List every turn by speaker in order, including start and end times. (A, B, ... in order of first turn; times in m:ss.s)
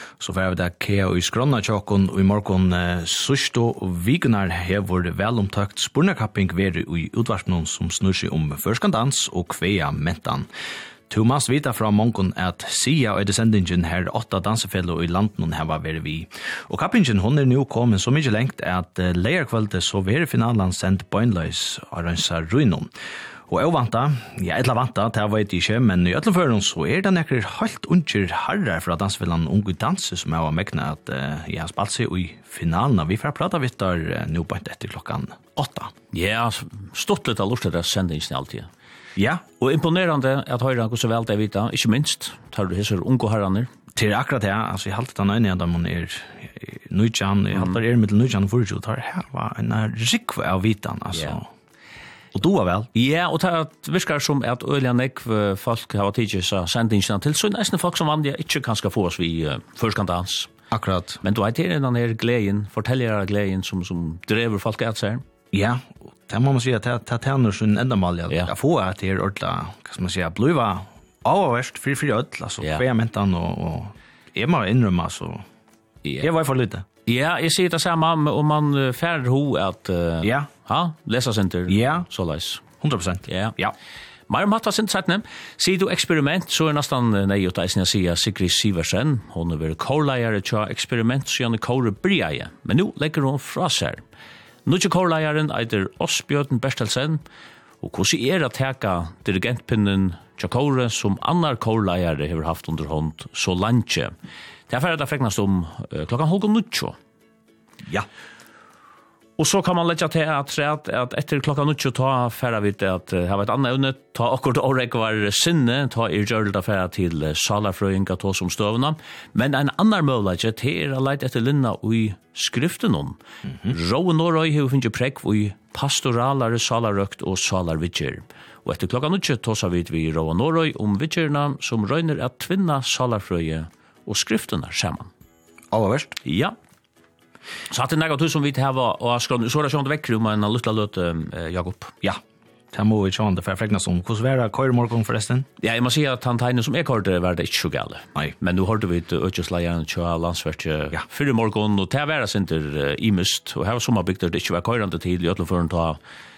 0:00.2-0:10.5 A
0:11.1-0:22.9 A
0:23.5-0:35.9 A
0:36.1-0:38.7 B
0:39.2-0:39.4 A
0:39.6-0:43.7 B
0:43.9-0:51.5 A
0:47.5-0:47.8 B
0:51.1-0:51.4 B
0:52.3-0:52.9 A
0:52.9-1:00.5 B
1:00.7-1:01.2 A
1:01.2-1:05.2 B
1:05.5-1:15.4 A
1:16.2-1:16.8 A
1:17.0-1:22.6 B
1:20.2-1:20.5 A
1:21.7-1:22.1 A
1:22.8-1:23.7 A
1:23.3-1:23.6 B
1:24.3-1:34.0 B
1:34.6-1:37.2 B
1:37.8-1:44.1 B
1:44.7-1:47.0 B
1:49.4-2:15.1 B
2:03.4-2:03.8 A
2:15.7-2:16.2 A
2:16.2-2:16.6 B
2:17.7-2:21.9 B
2:22.7-2:25.5 A
2:25.6-2:36.0 B